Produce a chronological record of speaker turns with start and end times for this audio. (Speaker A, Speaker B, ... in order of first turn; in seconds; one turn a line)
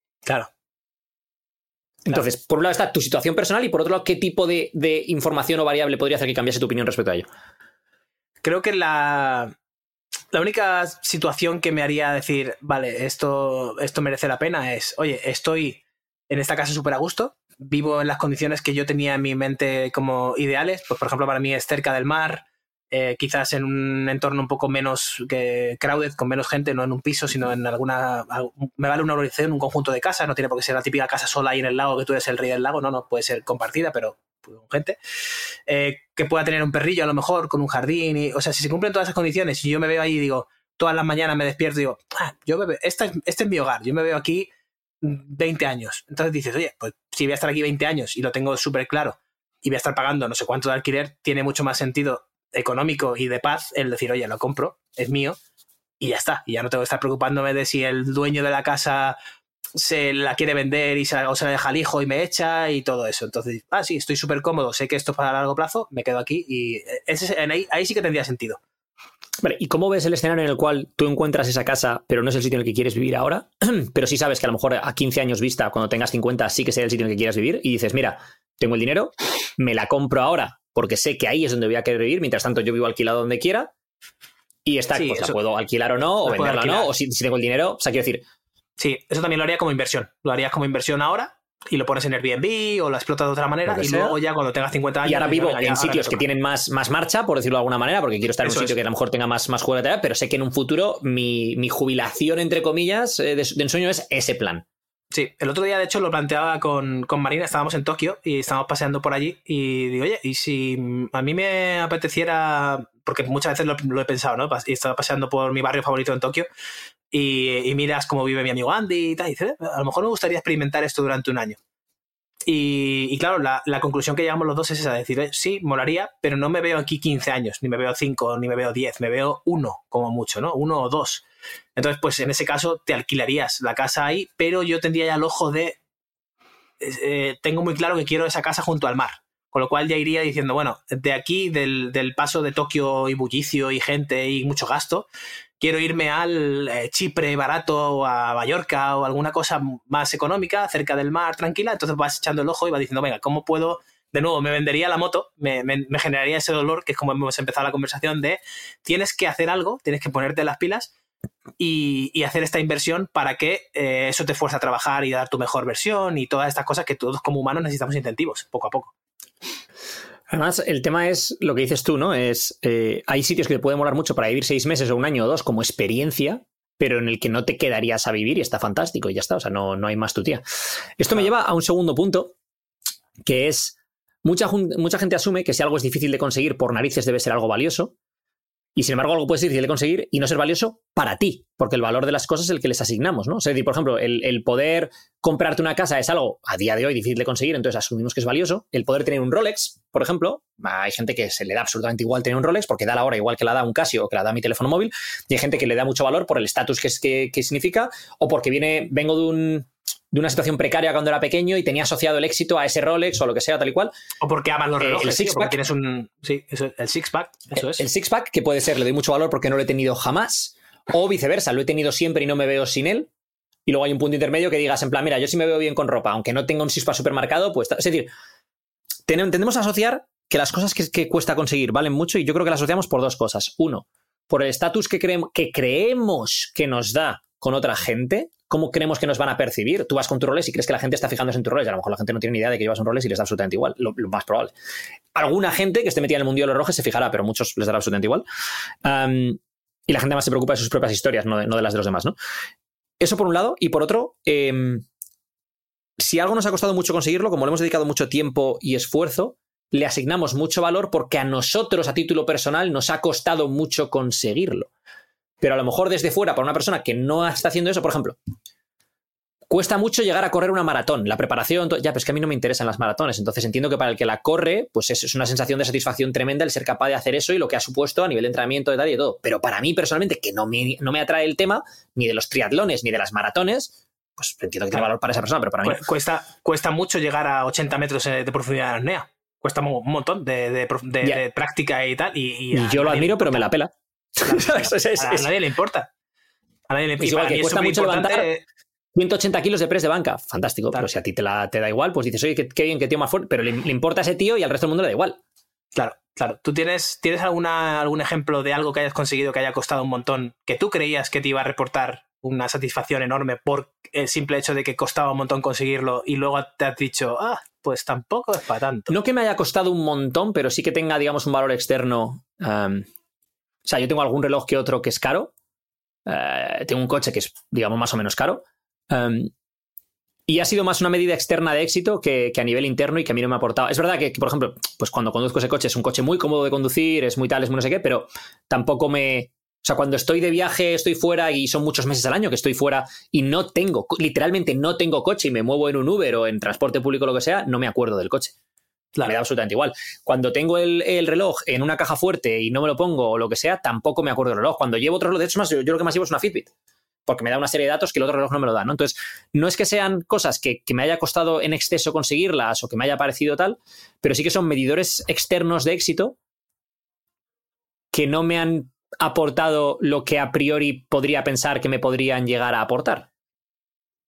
Speaker A: 2.1-7.3
Speaker B: 8.4-9.5
Speaker B: 10.3-35.0
Speaker B: 35.7-44.5
Speaker B: 45.0-55.4
Speaker B: 56.0-59.2
Speaker B: 59.7-68.6
Speaker A: 69.4-83.7
Speaker A: 84.6-88.2
Speaker B: 84.9-85.4
Speaker B: 86.2-86.9
Speaker B: 88.8-96.2
Speaker A: 93.7-94.2
Speaker A: 95.0-104.6
Speaker B: 98.4-98.7
Speaker B: 105.1-116.5
Speaker B: 117.1-121.6
Speaker B: 122.5-131.2
Speaker B: 131.8-135.8
Speaker B: 136.8-145.1
Speaker B: 145.6-160.9
Speaker B: 161.6-168.9
Speaker A: 170.3-180.4
Speaker A: 181.0-182.3
Speaker A: 183.2-187.9
Speaker A: 188.8-213.9
Speaker B: 214.2-217.8
Speaker A: 214.8-215.6
Speaker A: 217.6-223.1
Speaker A: 223.7-228.1
Speaker A: 229.1-244.5
Speaker A: 245.1-248.2
Speaker A: 248.8-252.2
Speaker A: 253.0-254.8
Speaker A: 256.0-264.7
Speaker A: 265.4-268.2
Speaker A: 269.5-285.8
Speaker B: 285.6-293.5
Speaker A: 292.5-295.3
Speaker B: 294.2-295.9
Speaker B: 296.7-298.4
Speaker A: 297.0-298.3
Speaker A: 298.9-305.2
Speaker B: 305.7-318.9
Speaker A: 318.9-322.9
Speaker A: 323.6-325.3
Speaker A: 326.1-329.3
Speaker A: 330.3-348.3
Speaker A: 349.0-356.5
Speaker A: 357.1-366.2
Speaker A: 367.9-373.1